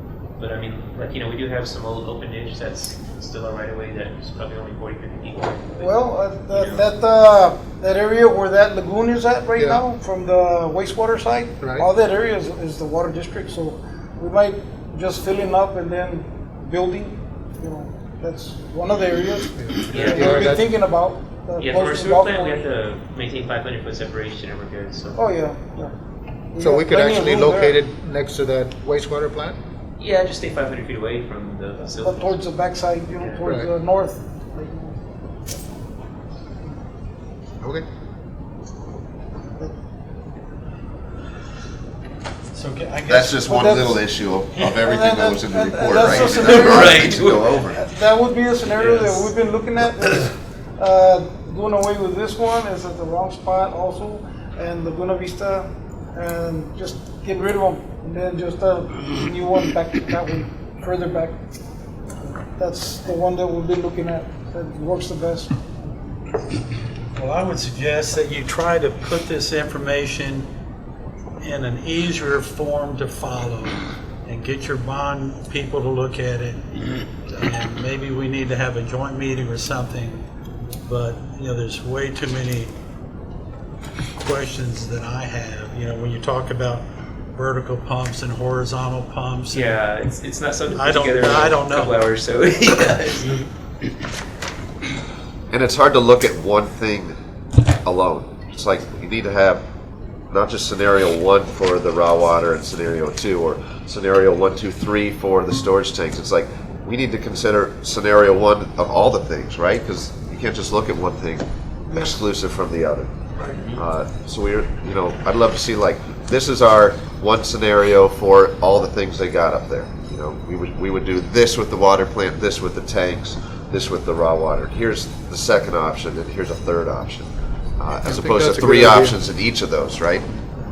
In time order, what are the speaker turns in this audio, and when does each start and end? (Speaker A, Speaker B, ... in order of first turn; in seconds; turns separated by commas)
Speaker A: 0.4-5.9, Speaker B: 5.8-22.7, Speaker A: 6.5-6.9, Speaker C: 9.6-9.8, Speaker C: 11.6-11.9, Speaker C: 19.6-20.7, Speaker A: 19.9-20.6, Speaker A: 21.6-25.2, Speaker B: 25.2-25.9, Speaker B: 26.5-27.8, Speaker C: 26.6-29.6, Speaker A: 30.0-32.4, Speaker B: 32.0-35.0, Speaker A: 33.2-33.4, Speaker C: 33.4-33.7, Speaker D: 42.5-43.8, Speaker E: 43.1-47.8, Speaker B: 43.5-44.0, Speaker B: 44.8-61.4, Speaker A: 46.3-47.6, Speaker A: 48.8-49.2, Speaker B: 62.3-65.5, Speaker D: 67.2-70.5, Speaker D: 71.4-76.7, Speaker D: 77.3-80.3, Speaker D: 80.9-82.7, Speaker D: 84.2-89.8, Speaker A: 89.5-93.4, Speaker D: 90.7-92.0, Speaker E: 95.5-97.1, Speaker E: 97.8-99.6, Speaker E: 100.3-113.1, Speaker B: 111.9-112.2, Speaker E: 113.8-127.3, Speaker E: 127.8-130.3, Speaker C: 128.0-129.2